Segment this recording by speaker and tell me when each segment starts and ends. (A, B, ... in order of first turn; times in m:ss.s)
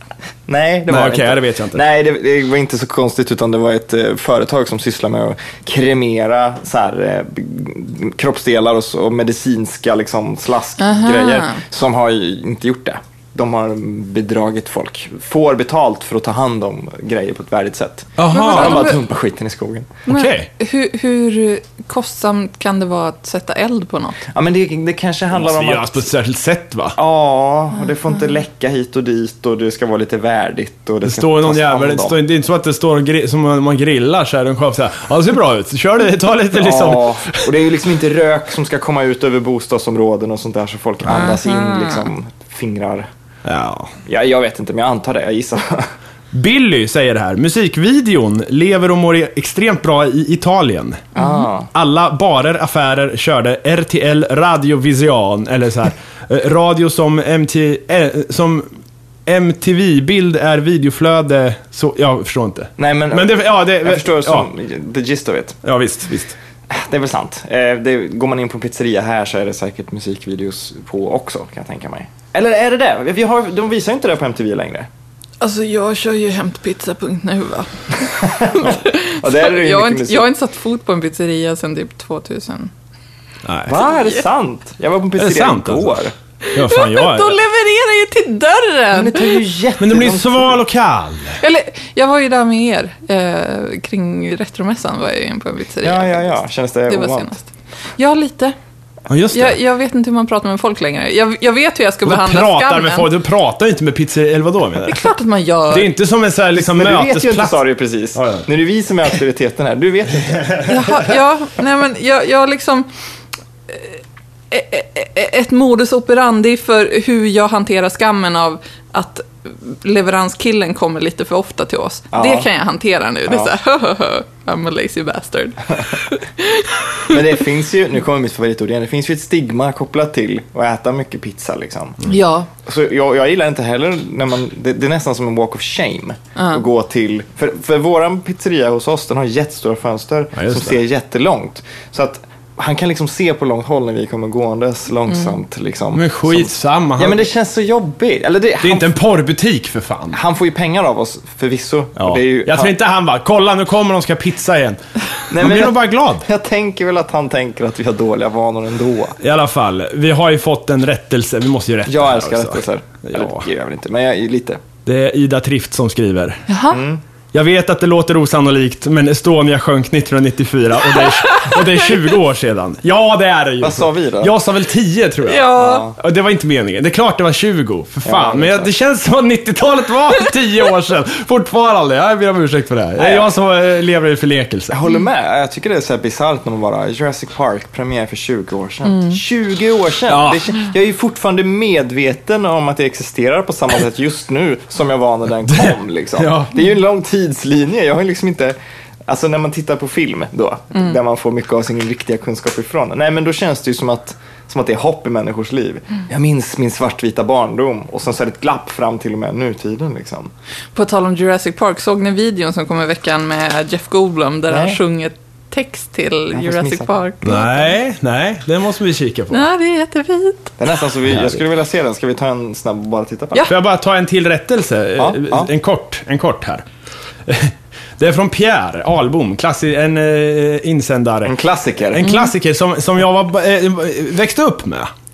0:00.5-0:20.0 A
0:00.9-0:01.8 B
0:10.8-0:11.6 C
0:18.2-0:19.0 B
0:18.3-0:19.0 C
0:20.0-0:24.2 C
0:20.1-0:20.5 B
0:24.3-0:26.1 A
0:25.3-0:27.0 B
0:27.0-0:32.2 A
0:31.0-0:37.5 B
0:36.5-0:43.1 A
0:41.1-0:42.1 C
0:43.4-0:43.9 B
0:44.0-0:45.9 A
0:46.3-0:51.1 B
0:51.2-0:51.5 C
0:51.2-0:51.7 A
0:51.7-0:58.7 B
0:59.3-1:04.5 B
1:02.8-1:05.6 A
1:05.6-1:06.4 B
1:06.7-1:14.9 A
1:15.4-1:17.7 C
1:18.0-1:20.3 A
1:18.5-1:22.7 C
1:23.4-1:23.8 B
1:23.7-1:26.1 A
1:25.2-1:26.0 B
1:26.5-1:29.4 C
1:26.5-1:27.4 B
1:28.9-1:30.6 A
1:29.8-1:31.4 B
1:31.4-1:36.4 C
1:35.8-1:37.3 A
1:36.9-1:37.5 C
1:38.0-1:38.6 C
1:39.1-1:39.6 B
1:39.3-1:43.1 C
1:42.0-1:45.1 B
1:44.8-1:45.9 C
1:45.7-1:47.6 B
1:46.5-1:50.7 A
1:48.2-1:48.4 B
1:50.7-1:52.9 C
1:53.7-1:54.0 C
1:54.5-2:07.1 C
2:02.1-2:02.5 A
2:03.3-2:03.5 A
2:07.1-2:12.0 A
2:12.0-2:12.5 C
2:12.6-2:28.9 A
2:16.4-2:16.6 C
2:20.3-2:20.8 B
2:25.9-2:27.2 B
2:28.6-2:30.2 B
2:30.1-2:32.7 A
2:32.0-2:36.3 B
2:35.3-2:39.2 A
2:39.2-2:43.4 B
2:41.9-2:44.6 A
2:44.8-2:46.4 B
2:46.5-2:46.8 C
2:46.7-2:47.0 A
2:47.3-3:04.8 B
2:51.2-2:51.6 C
2:53.6-2:54.3 A
2:55.2-2:55.8 C
2:55.6-2:56.0 A
2:58.0-2:58.7 A
3:03.0-3:03.3 A
3:04.7-3:30.3 A
3:08.8-3:09.2 C
3:10.1-3:10.5 B
3:15.5-3:16.6 B
3:30.7-3:37.7 C
3:34.5-3:34.8 A
3:36.3-3:36.9 A
3:37.2-3:39.5 B
3:39.3-3:40.5 C
3:40.6-3:43.5 A
3:41.1-3:41.4 B
3:43.5-3:46.6 B
3:45.0-3:45.5 A
3:47.3-3:51.4 B
3:51.2-3:52.1 A
3:51.9-3:54.9 B